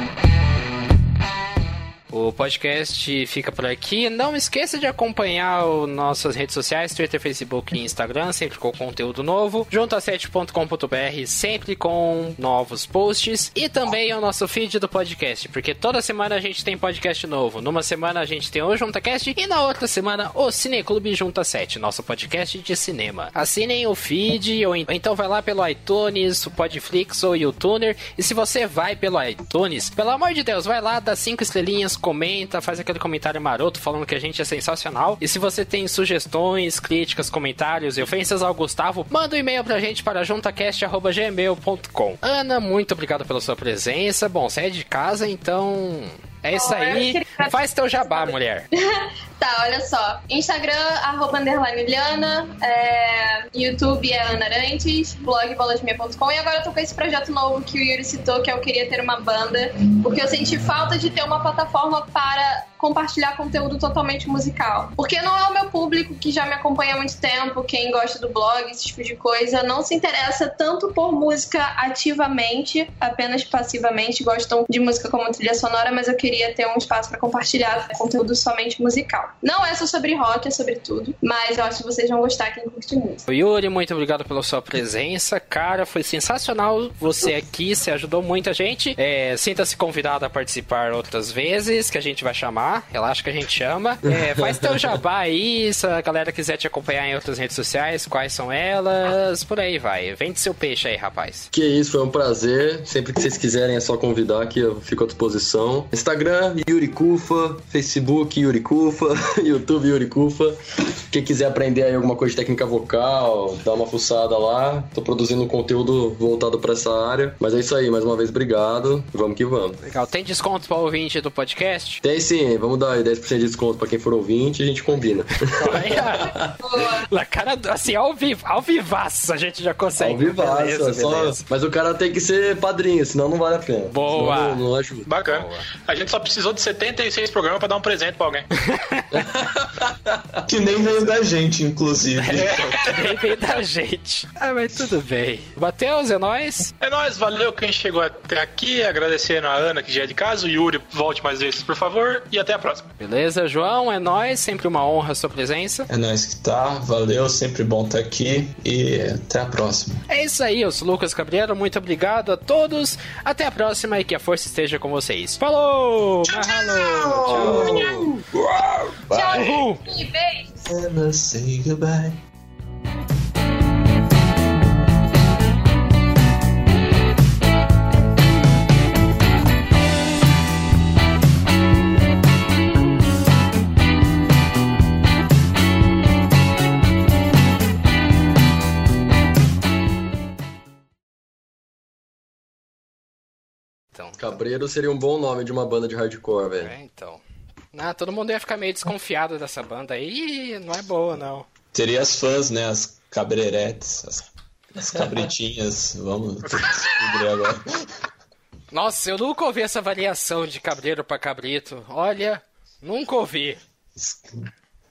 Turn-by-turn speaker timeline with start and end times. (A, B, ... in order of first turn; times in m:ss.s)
0:02.1-0:48.7 A
0:46.5-1:23.2 B
1:23.3-1:41.5 A
1:34.1-1:34.9 C
1:41.5-1:50.6 C
1:51.1-1:59.8 C
1:59.8-2:02.0 A
2:02.0-2:06.6 C
2:05.5-2:11.4 A
2:06.6-2:07.1 B
2:10.0-2:15.1 C
2:13.9-2:14.6 A
2:15.1-2:18.5 D
2:15.2-2:15.7 A
2:18.6-2:19.2 A
2:19.1-2:20.4 C
2:20.5-2:22.7 E
2:22.2-2:26.7 A
2:26.8-2:32.9 D
2:33.0-2:35.9 A
2:35.9-2:40.0 E
2:40.1-2:48.0 A
2:46.4-2:49.7 E
2:46.6-2:48.1 B
2:49.1-2:50.7 B
2:49.3-2:49.8 A
2:50.7-2:52.2 E
3:14.0-3:14.2 A
3:14.2-3:16.7 C
3:16.6-3:17.2 A
3:17.7-3:21.5 A
3:21.7-3:27.8 E
3:28.7-3:33.6 A
3:34.0-3:34.4 E